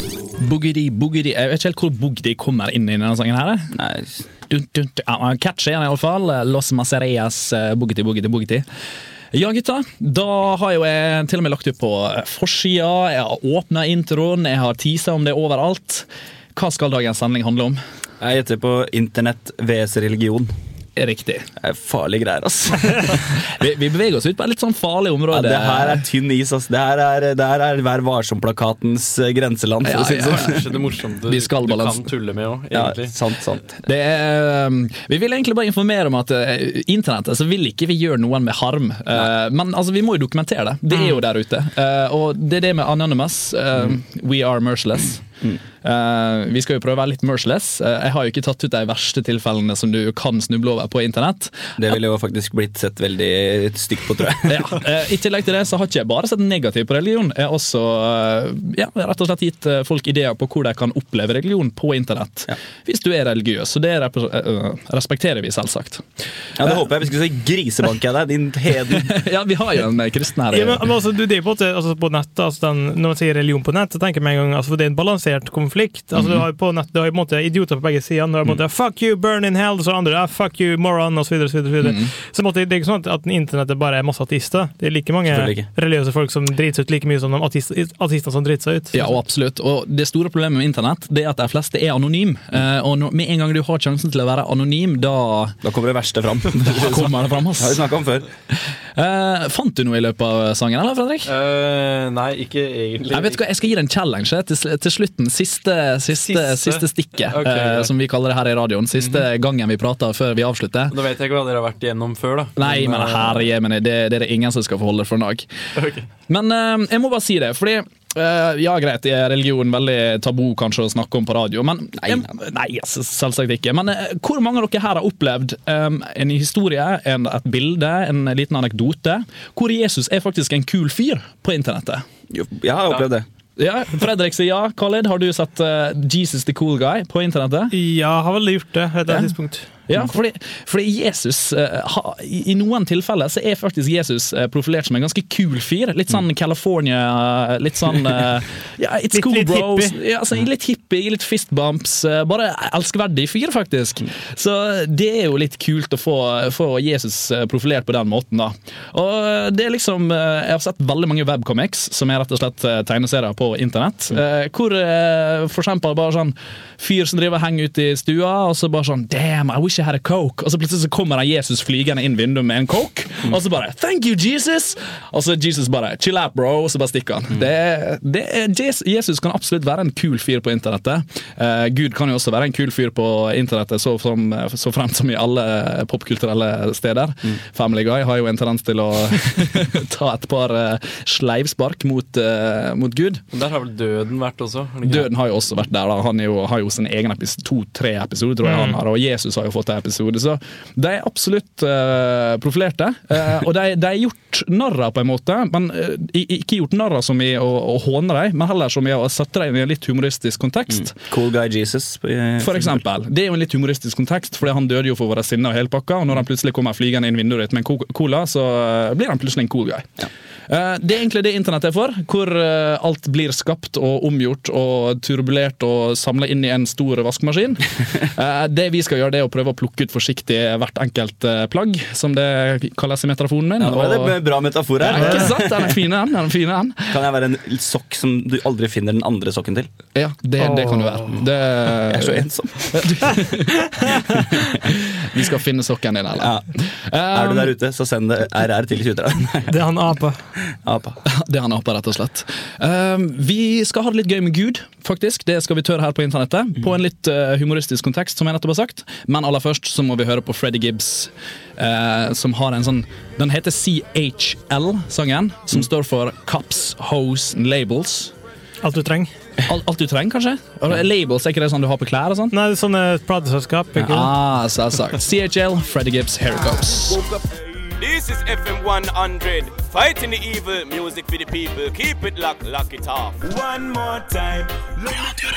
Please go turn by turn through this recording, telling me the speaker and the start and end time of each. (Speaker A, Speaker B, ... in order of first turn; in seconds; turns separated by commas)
Speaker A: 0.4-3.7, Speaker B: 3.8-4.3, Speaker A: 4.5-8.7, Speaker A: 9.3-17.8, Speaker B: 18.2-20.5, Speaker A: 21.0-21.5, Speaker B: 21.6-23.3, Speaker A: 23.5-26.1, Speaker B: 25.3-30.6, Speaker A: 29.9-30.7, Speaker C: 30.1-33.2, Speaker A: 31.2-32.1, Speaker B: 32.7-33.6, Speaker A: 33.8-45.2, Speaker A: 45.8-52.0, Speaker B: 51.8-54.7, Speaker A: 54.5-66.1, Speaker B: 66.6-69.1, Speaker A: 69.0-70.8, Speaker D: 70.5-89.0, Speaker A: 81.8-82.1, Speaker B: 85.3-85.6, Speaker A: 88.9-95.6, Speaker B: 95.6-98.3, Speaker A: 96.8-97.8, Speaker A: 98.5-101.3, Speaker C: 101.3-103.4, Speaker A: 103.1-111.0, Speaker C: 106.1-107.9, Speaker C: 110.9-113.5, Speaker A: 112.6-115.5, Speaker C: 115.8-116.1, Speaker A: 116.3-132.1, Speaker B: 132.3-133.2, Speaker A: 133.6-137.7, Speaker D: 137.7-140.0, Speaker A: 139.1-193.2, Speaker D: 149.1-150.0, Speaker C: 193.3-195.1, Speaker A: 194.8-210.9, Speaker D: 198.4-198.8, Speaker B: 210.7-212.8, Speaker A: 212.4-219.9, Speaker A: 220.5-234.2, Speaker B: 233.6-235.6, Speaker A: 234.8-237.0, Speaker D: 234.9-235.3, Speaker B: 236.9-239.7, Speaker A: 239.9-243.3, Speaker D: 240.4-241.0, Speaker B: 241.9-243.3, Speaker A: 245.0-247.5, Speaker B: 246.2-246.5, Speaker B: 247.1-249.7, Speaker D: 249.5-250.3, Speaker B: 250.6-251.0, Speaker A: 251.1-268.1, Speaker D: 268.6-269.1, Speaker A: 269.5-272.4, Speaker D: 272.3-274.1, Speaker A: 273.8-277.0, Speaker E: 276.9-284.5